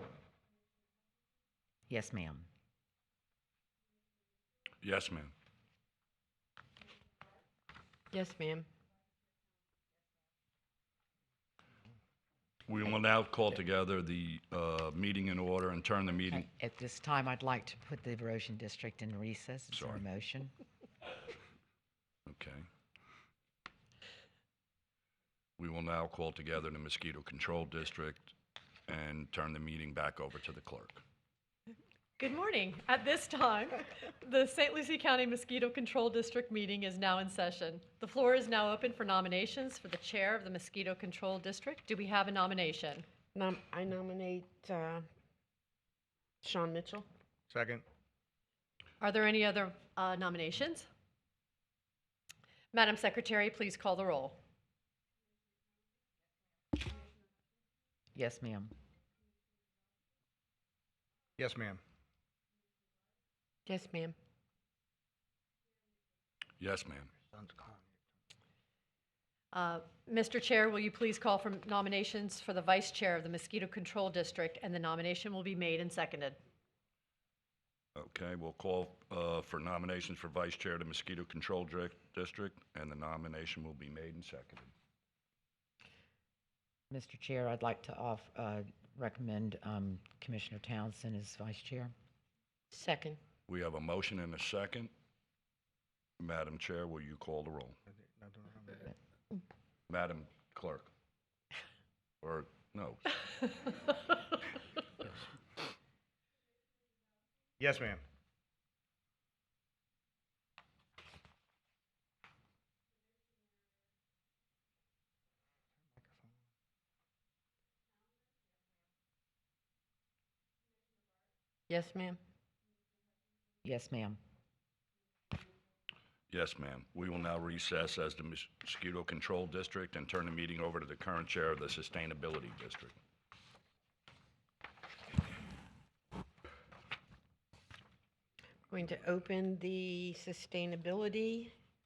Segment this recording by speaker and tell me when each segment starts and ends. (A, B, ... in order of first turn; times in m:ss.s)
0:01.9-0:02.5 A
0:04.8-0:05.3 B
0:08.1-0:08.7 C
0:12.7-0:16.5 B
0:16.3-0:20.5 A
0:19.7-0:20.0 B
0:22.2-0:22.6 B
0:25.6-0:28.3 B
0:28.9-0:31.0 B
0:32.2-0:43.0 D
0:43.3-0:45.0 C
0:46.4-0:47.1 C
0:47.5-0:47.8 E
0:49.0-0:50.9 D
0:52.7-0:54.4 D
0:58.1-0:58.7 A
1:01.4-1:01.8 E
1:03.6-1:04.1 C
1:06.6-1:07.1 B
1:07.3-1:07.9 E
1:09.5-1:16.4 D
1:17.9-1:24.7 B
1:26.9-1:31.9 A
1:32.7-1:33.2 C
1:33.5-1:34.9 B
1:36.2-1:37.8 B
1:37.9-1:38.9 E
1:39.9-1:40.9 B
1:42.2-1:43.2 B
1:47.6-1:48.0 E
1:56.0-1:56.3 E
2:01.7-2:02.2 C
2:03.6-2:04.2 A
2:06.3-2:13.0 B
2:18.7-2:21.5 C